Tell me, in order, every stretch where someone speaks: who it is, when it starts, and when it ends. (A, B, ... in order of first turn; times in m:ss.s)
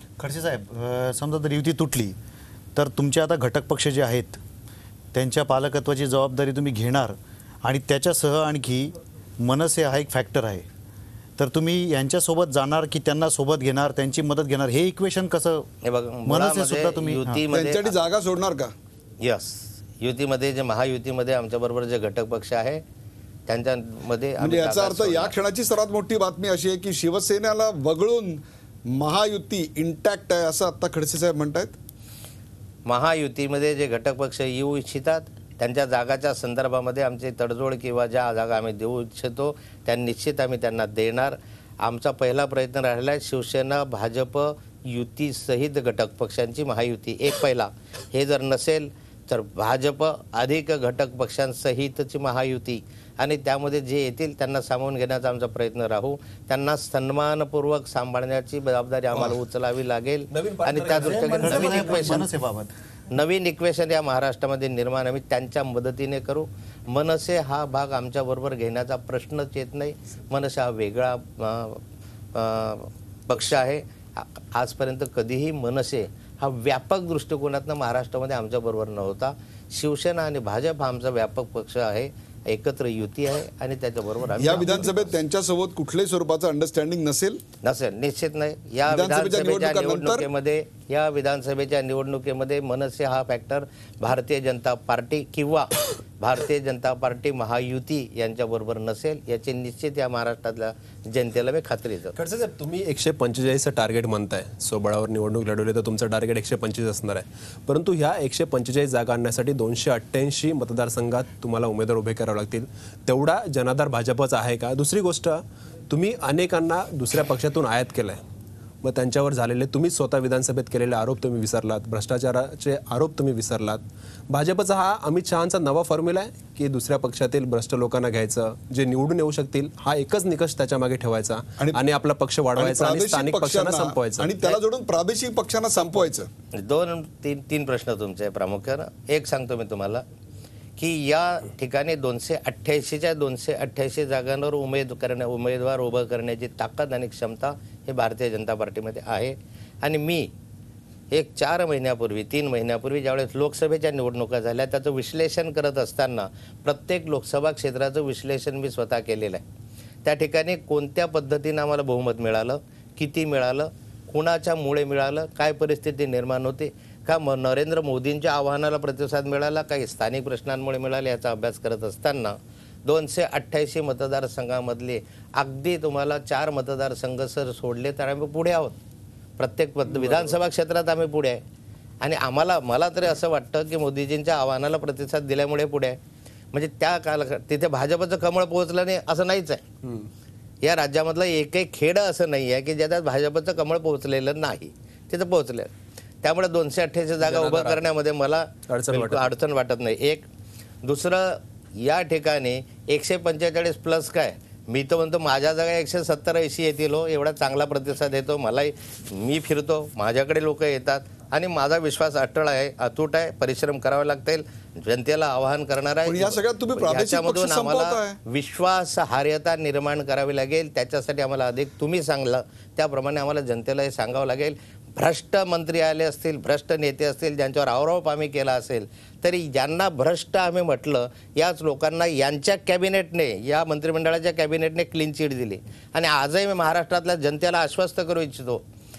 0:00.2-0:02.2 A
0:02.8-0:04.4 A
0:05.1-0:10.7 A
0:11.4-0:15.7 A
0:15.8-0:17.9 B
0:16.2-0:17.4 A
0:17.5-0:18.7 C
0:19.2-0:22.8 B
0:23.5-0:25.3 B
0:24.4-0:31.7 C
0:32.9-1:02.3 B
1:00.3-1:02.3 D
1:01.2-1:02.7 A
1:03.1-1:11.8 B
1:12.3-1:25.1 B
1:24.4-1:27.4 C
1:27.6-1:42.2 B
1:28.9-1:30.3 C
1:42.2-1:58.2 D
1:58.8-2:14.6 D
2:12.6-2:16.3 C
2:16.5-2:20.0 B
2:20.8-2:30.3 B
2:31.1-2:39.4 B
2:40.0-2:58.8 B
2:59.4-3:01.4 B
2:59.9-3:00.3 D
3:02.0-3:06.0 B
3:06.5-3:09.6 B
3:09.8-3:10.1 D
3:10.6-3:15.7 B
3:16.2-3:20.2 B
3:17.2-3:17.8 D
3:18.7-3:19.3 D
3:20.8-3:58.6 B
3:36.0-3:38.2 C